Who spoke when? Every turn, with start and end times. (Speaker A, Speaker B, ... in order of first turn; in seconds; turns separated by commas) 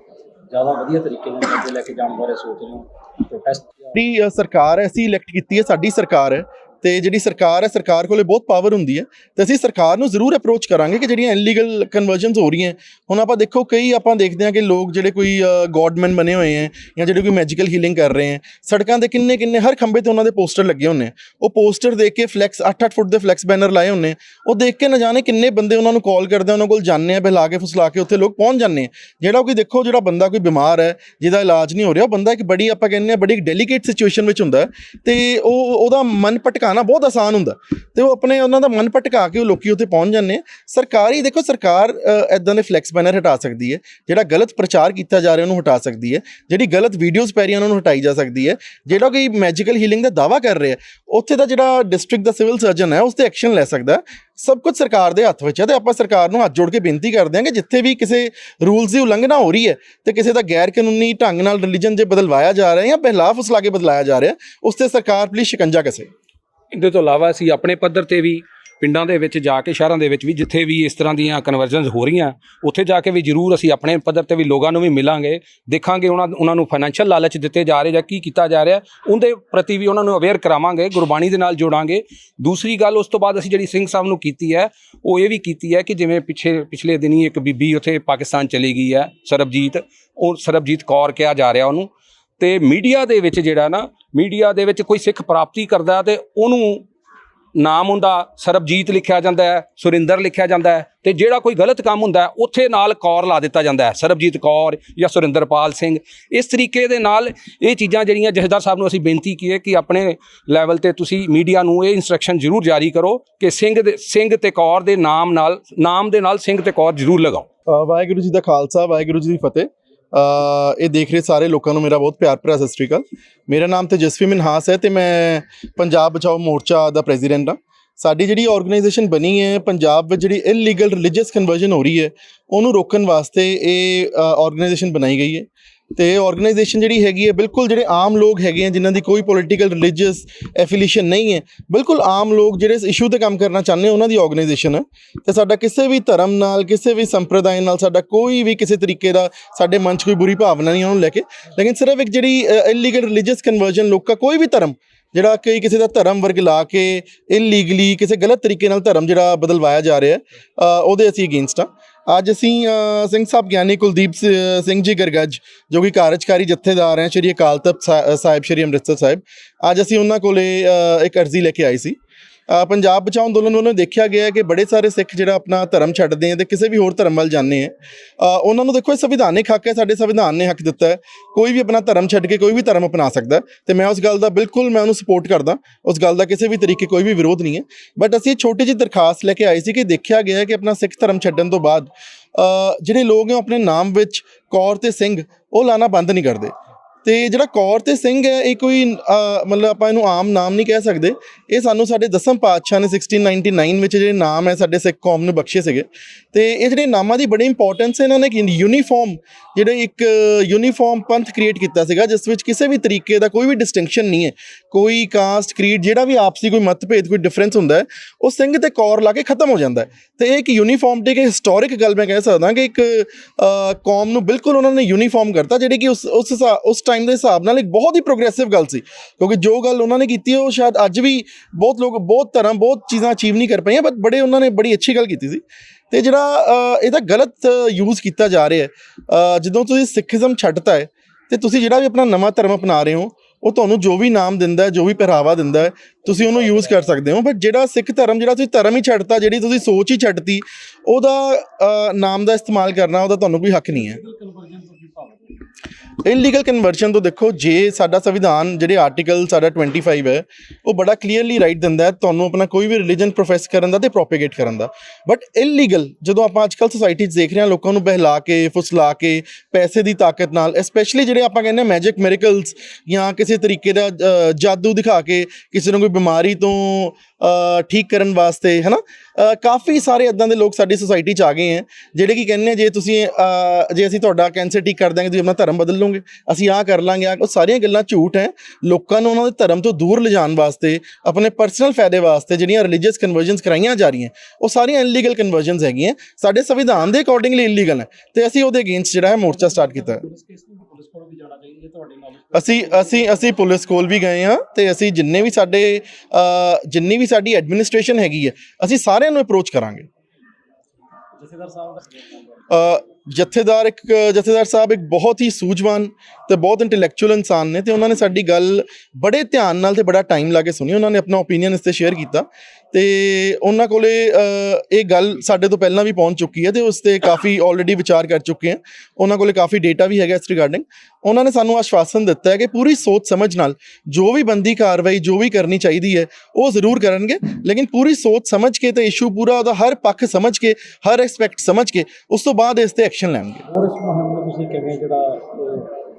Speaker A: 0.5-3.9, Speaker B: 0.6-1.4, Speaker C: 4.0-66.1, Speaker A: 66.7-96.9, Speaker A: 97.6-117.5, Speaker C: 117.7-172.0, Speaker C: 172.5-196.5, Speaker C: 197.1-254.0, Speaker B: 254.0-255.4, Speaker C: 256.1-300.1, Speaker B: 299.7-303.2, Speaker C: 302.3-309.9, Speaker B: 311.2-312.2, Speaker C: 312.5-343.4, Speaker A: 343.6-343.9, Speaker B: 343.6-345.8